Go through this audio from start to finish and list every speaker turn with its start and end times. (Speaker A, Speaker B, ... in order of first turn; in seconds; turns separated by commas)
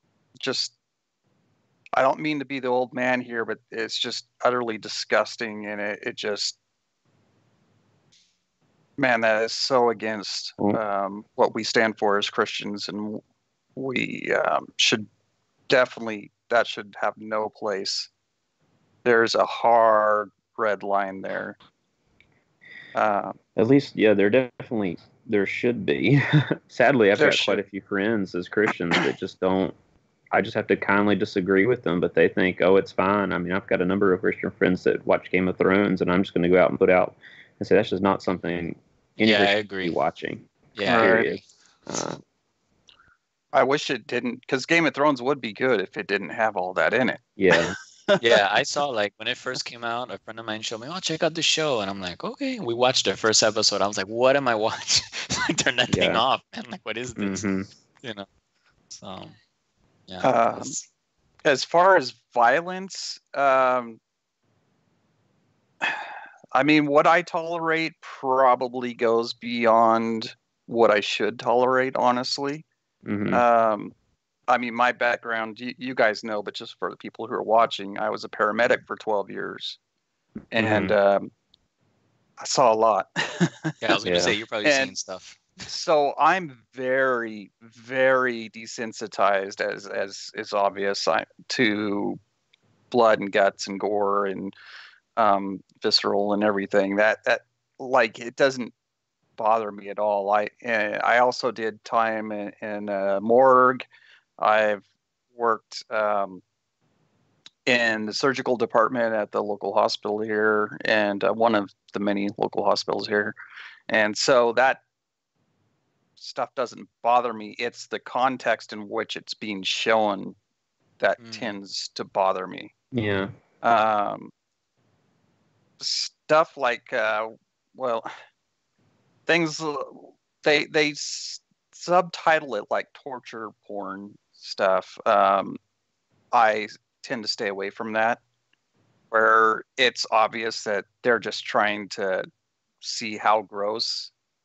Speaker A: 0.4-0.8, Speaker A: 1.9-6.6, Speaker A: 9.0-13.2, Speaker A: 13.8-15.1, Speaker A: 15.7-18.1, Speaker A: 19.1-21.6, Speaker A: 22.9-23.4, Speaker B: 23.6-29.8, Speaker A: 27.1-27.6, Speaker B: 30.3-42.2, Speaker C: 39.2-40.0, Speaker C: 40.8-41.4, Speaker A: 40.9-41.3, Speaker A: 43.5-48.4, Speaker B: 47.4-47.8, Speaker C: 48.2-57.5, Speaker B: 55.9-56.2, Speaker B: 57.2-57.7, Speaker C: 58.9-59.3, Speaker C: 60.1-60.9, Speaker A: 60.2-60.8, Speaker A: 61.4-64.0, Speaker A: 65.8-72.6, Speaker B: 73.1-73.4, Speaker A: 73.3-73.9, Speaker A: 74.5-79.8, Speaker A: 80.5-81.3, Speaker B: 80.5-80.9, Speaker A: 82.4-84.0, Speaker C: 83.8-85.4, Speaker B: 84.0-84.3, Speaker A: 84.6-84.9, Speaker A: 85.7-92.2, Speaker A: 92.9-94.5, Speaker A: 95.2-98.7, Speaker A: 99.4-103.9, Speaker A: 104.4-106.4, Speaker A: 107.7-113.3, Speaker A: 113.9-114.8, Speaker A: 116.2-120.4, Speaker A: 121.0-122.7, Speaker C: 121.2-121.5, Speaker B: 122.9-123.3, Speaker A: 123.6-124.3, Speaker A: 125.8-128.1, Speaker A: 129.3-135.6, Speaker A: 136.3-138.2, Speaker A: 139.1-142.3, Speaker A: 142.8-144.1